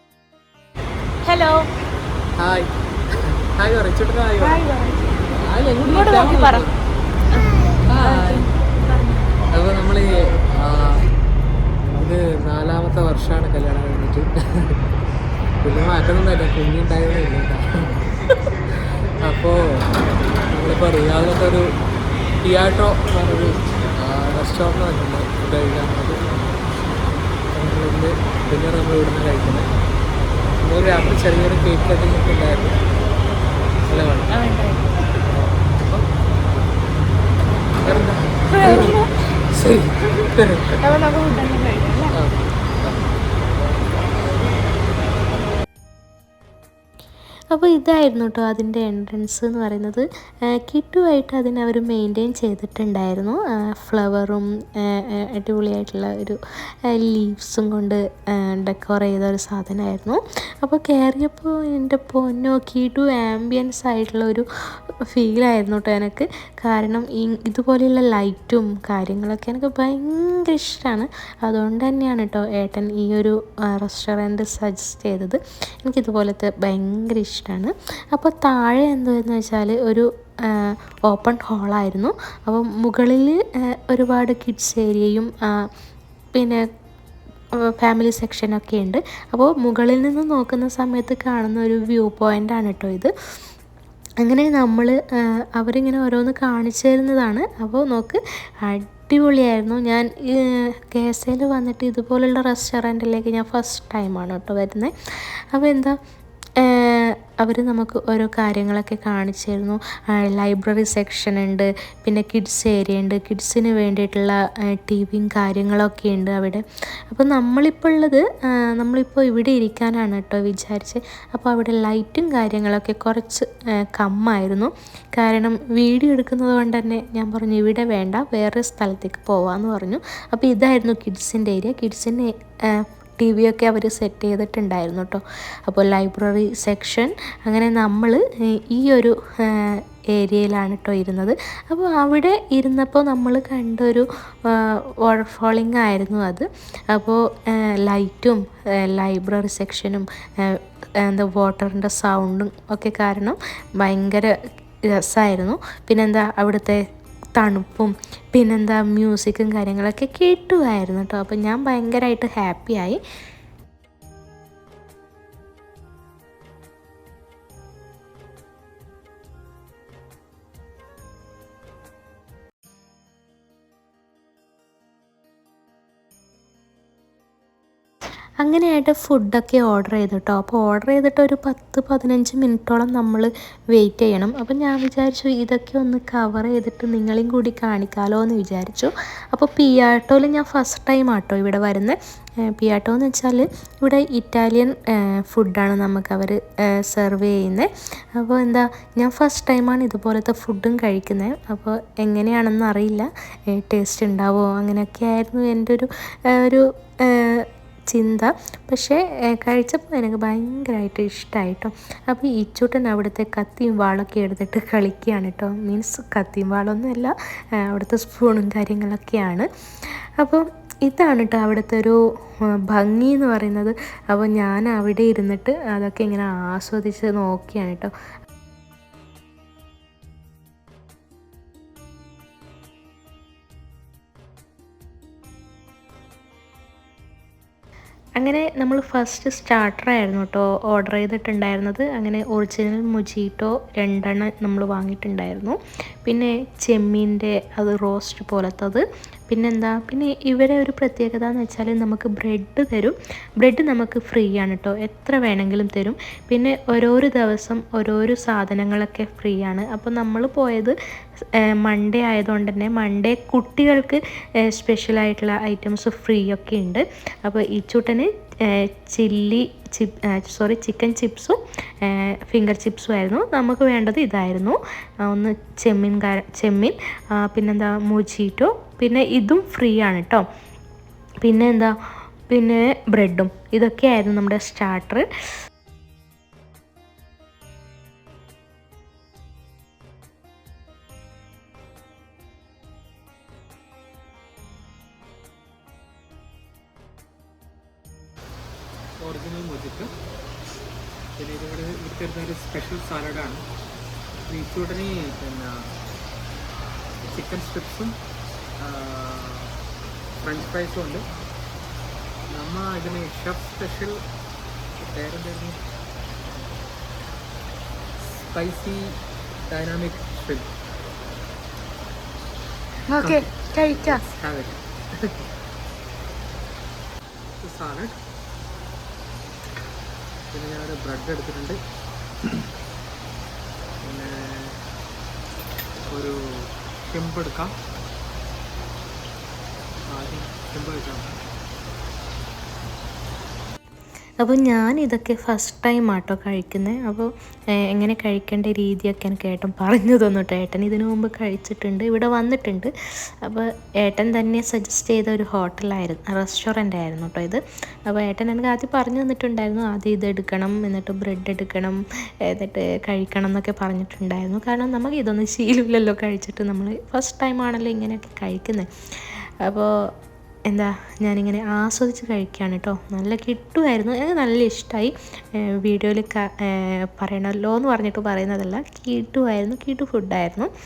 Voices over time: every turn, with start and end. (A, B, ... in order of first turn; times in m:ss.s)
0:01.2-0:01.6 A
0:02.4-0:02.7 B
0:03.5-0:04.6 B
0:04.4-0:05.3 A
0:05.3-0:06.8 B
0:05.9-0:06.7 A
0:07.3-0:09.3 A
0:07.9-0:08.5 B
0:09.5-0:11.1 B
0:12.0-0:14.8 B
0:15.6-0:18.4 B
0:19.2-0:19.9 B
0:20.5-0:21.6 B
0:22.4-0:26.4 B
0:27.5-0:29.7 B
0:30.6-0:32.8 B
0:33.9-0:34.3 B
0:34.3-0:35.1 A
0:35.8-0:36.1 B
0:37.8-0:40.8 B
0:38.5-0:39.1 A
0:40.8-0:42.1 A
0:42.1-0:43.0 B
0:47.5-1:04.4 C
1:05.1-1:25.3 C
1:26.3-1:26.6 C
1:27.6-1:33.1 C
1:34.2-1:44.9 C
1:45.5-1:46.0 C
1:46.6-2:34.3 C
2:35.0-2:36.8 C
2:37.4-2:43.0 C
2:58.4-3:12.0 C
3:12.5-3:37.1 C
3:37.7-3:39.5 C
3:40.2-3:42.0 C
3:42.6-3:47.9 C
3:58.2-4:20.8 C
4:21.4-4:40.2 C
4:41.2-4:41.7 C
4:42.3-4:45.1 C
4:59.0-4:59.9 B
5:01.2-5:03.4 B
5:04.3-5:05.7 B
5:07.0-5:08.0 B
5:08.6-5:09.5 B
5:10.2-5:11.0 B
5:12.3-5:14.0 B
5:14.8-5:15.6 B
5:18.0-5:19.0 B
5:19.5-5:20.5 B
5:22.9-5:24.0 A
5:23.0-5:25.1 B
5:27.4-5:28.0 B
5:30.3-5:31.6 B
5:33.8-5:34.6 B
5:35.9-5:36.2 B
5:36.9-5:37.5 B
5:39.9-5:41.2 B
5:44.2-5:47.1 C
5:47.7-5:52.7 C
5:53.2-6:09.7 C
6:10.5-6:14.9 C
6:15.5-6:20.5 C